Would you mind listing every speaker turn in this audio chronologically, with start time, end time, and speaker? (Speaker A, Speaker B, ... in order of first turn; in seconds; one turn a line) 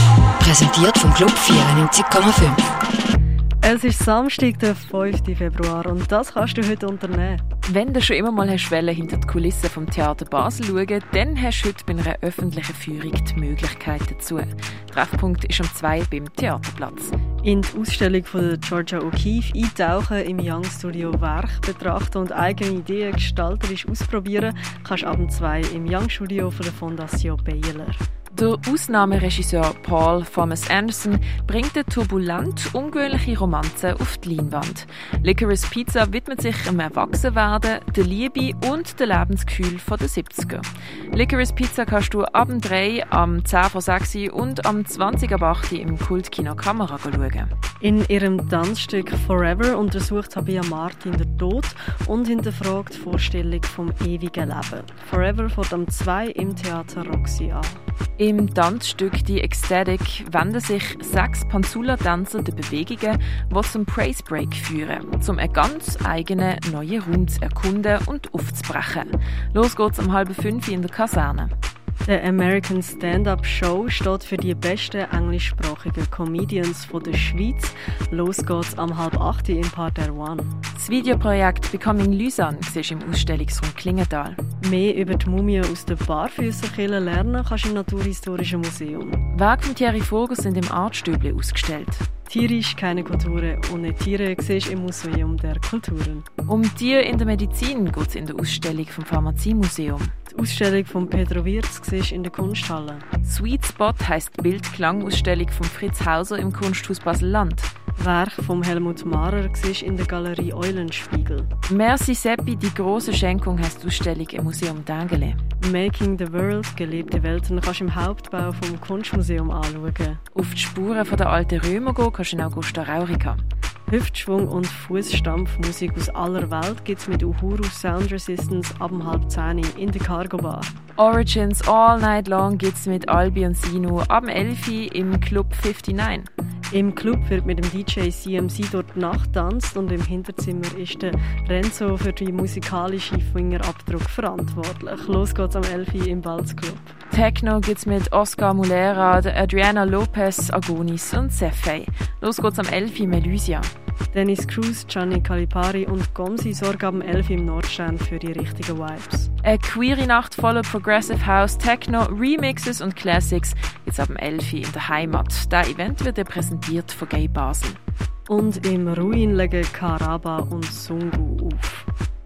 Speaker A: 0.4-2.6
Speaker B: 3.6-7.4
Speaker C: 7.7-17.1
Speaker B: 17.4-28.0
Speaker C: 28.3-47.5
Speaker B: 47.8-57.8
Speaker C: 58.2-71.5
Speaker B: 72.1-80.5
Speaker C: 80.7-84.4
Speaker B: 84.6-89.2
Speaker C: 89.3-92.0
Speaker B: 92.3-96.3
Speaker C: 96.5-100.1
Speaker B: 100.3-103.0
Speaker C: 103.2-107.7
Speaker B: 108.0-111.5
Speaker C: 111.7-115.4
Speaker B: 115.6-120.2
Speaker C: 120.3-123.4
Speaker B: 123.9-130.7
Speaker C: 131.0-136.3
Speaker B: 136.7-146.9
Speaker C: 147.1-153.7
Speaker B: 154.1-159.3
Speaker C: 159.4-167.8
Speaker B: 168.3-171.8